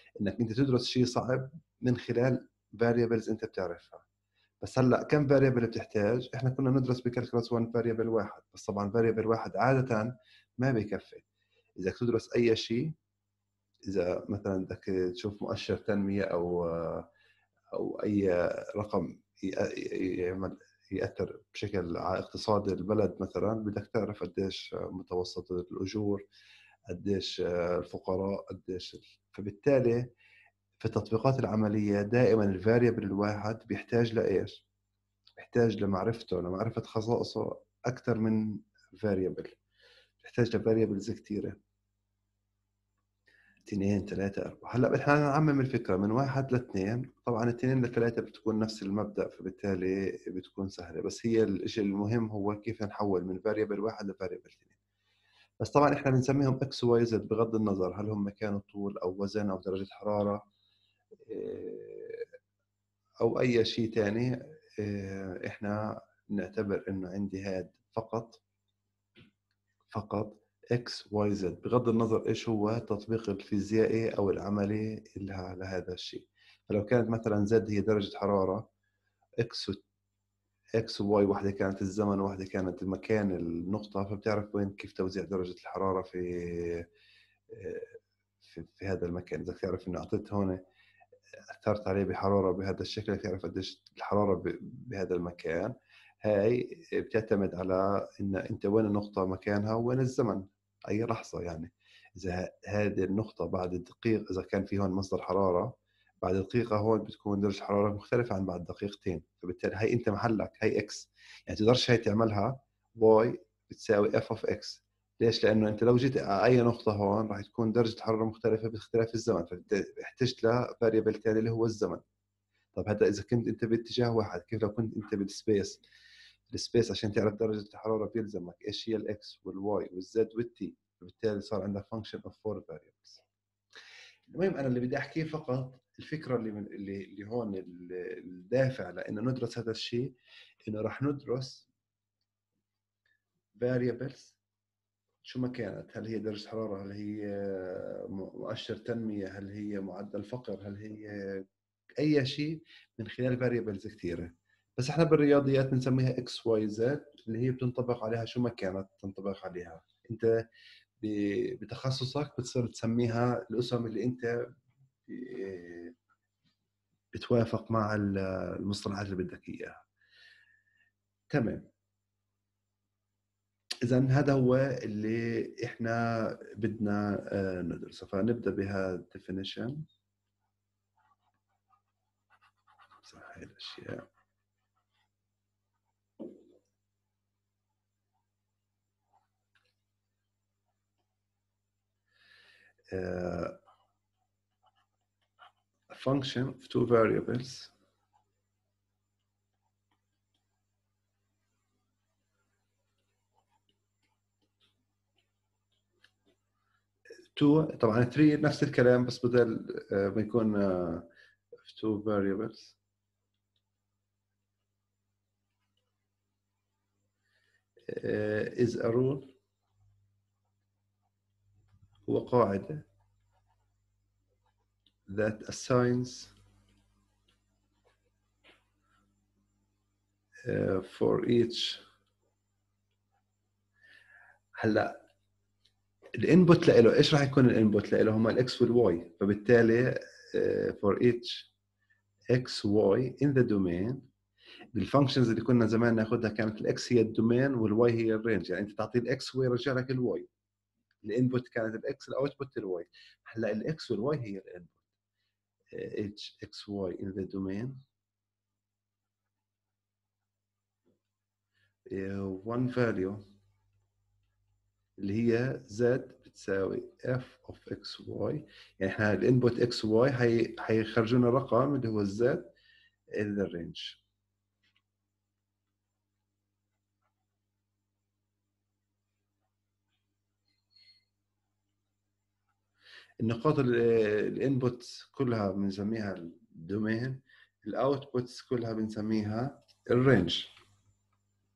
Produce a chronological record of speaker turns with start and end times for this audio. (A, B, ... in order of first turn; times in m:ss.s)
0:00.2-0:04.0 A
0:04.6-0:11.2 A
0:11.8-0:12.9 A
0:13.9-0:17.1 A
0:17.7-0:26.2 A
0:26.9-0:30.1 A
0:30.8-0:34.6 A
0:35.4-0:39.6 A
0:40.2-0:41.6 A
0:43.7-0:54.8 A
0:55.6-1:00.4 A
1:01.3-1:02.2 A
1:03.2-1:05.8 A
1:06.3-1:08.4 A
1:09.9-1:18.7 A
1:19.4-1:19.8 A
1:20.8-1:26.9 A
1:27.5-1:30.6 A
1:31.5-2:02.0 A
2:02.8-2:05.8 A
2:06.5-2:13.2 A
2:14.3-2:20.1 A
2:20.7-2:21.7 A
2:23.6-2:24.4 A
2:25.2-2:31.4 A
2:32.0-2:40.3 A
2:41.0-2:44.3 A
2:45.1-2:45.9 A
2:47.1-2:49.8 A
2:51.3-2:51.7 A
2:53.8-2:59.8 A
3:03.0-3:04.1 A
3:12.9-3:13.6 A
3:15.9-3:17.7 A
3:27.4-3:31.1 A
3:31.6-3:32.8 A
3:37.9-3:39.3 A
3:42.1-3:42.8 A
3:45.1-3:46.3 A
3:50.5-3:51.8 A
3:54.6-3:55.0 A
3:56.2-4:01.5 A
4:02.3-4:04.1 A
4:04.8-4:10.3 A
4:11.0-4:14.9 A
4:15.7-4:17.8 A
4:21.9-4:23.2 A
4:25.0-4:32.5 A
4:33.2-4:34.0 A
4:43.2-4:50.5 A